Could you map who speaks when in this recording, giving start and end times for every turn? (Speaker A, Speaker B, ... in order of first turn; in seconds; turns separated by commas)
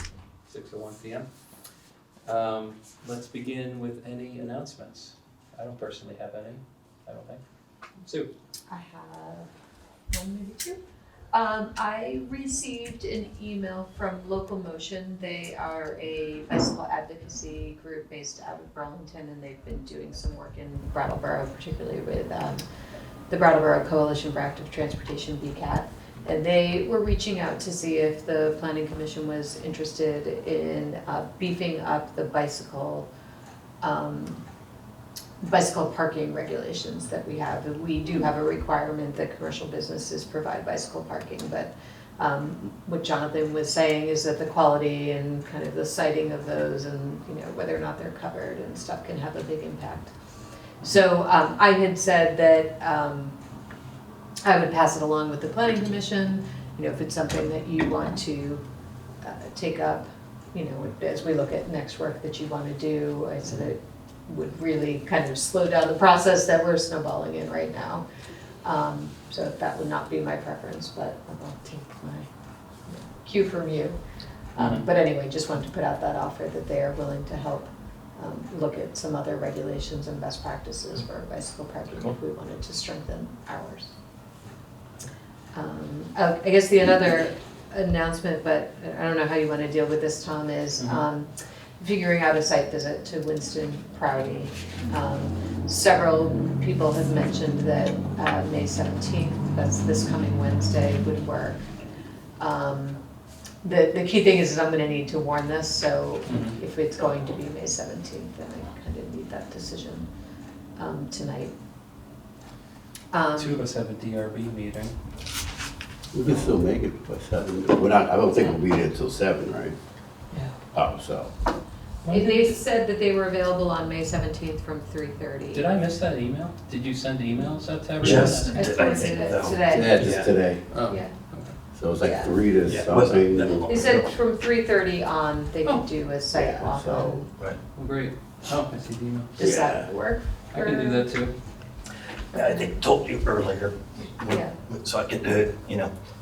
Speaker A: 0.5-1.2, Speaker A: 2.2-7.4, Speaker A: 8.0-8.3, Speaker B: 8.7-9.5, Speaker B: 10.1-10.8, Speaker B: 11.3-22.6, Speaker B: 23.3-33.1, Speaker B: 33.8-34.4, Speaker B: 35.4-50.1, Speaker B: 50.8-53.4, Speaker B: 54.4-58.6, Speaker B: 59.2-68.0, Speaker B: 68.6-72.3, Speaker B: 72.9-74.0, Speaker B: 74.5-83.9, Speaker A: 74.6-74.8, Speaker B: 85.5-101.6, Speaker B: 102.4-103.0, Speaker B: 103.6-110.1, Speaker A: 106.2-106.6, Speaker B: 110.8-111.5, Speaker B: 113.1-113.6, Speaker A: 113.4-114.9, Speaker C: 116.1-119.7, Speaker B: 116.2-116.5, Speaker C: 120.7-121.3, Speaker A: 122.0-122.5, Speaker B: 122.1-125.7, Speaker A: 125.5-129.2, Speaker D: 128.0-130.3, Speaker B: 128.1-130.2, Speaker C: 129.7-130.6, Speaker A: 130.7-131.5, Speaker B: 130.9-131.1, Speaker C: 131.7-134.0, Speaker B: 132.0-132.3, Speaker D: 132.7-134.1, Speaker B: 133.7-137.3, Speaker C: 136.3-137.2, Speaker A: 137.7-139.3, Speaker B: 139.3-141.0, Speaker C: 139.4-139.9, Speaker A: 140.5-141.3, Speaker B: 142.3-142.8, Speaker D: 142.3-145.9, Speaker B: 144.2-144.6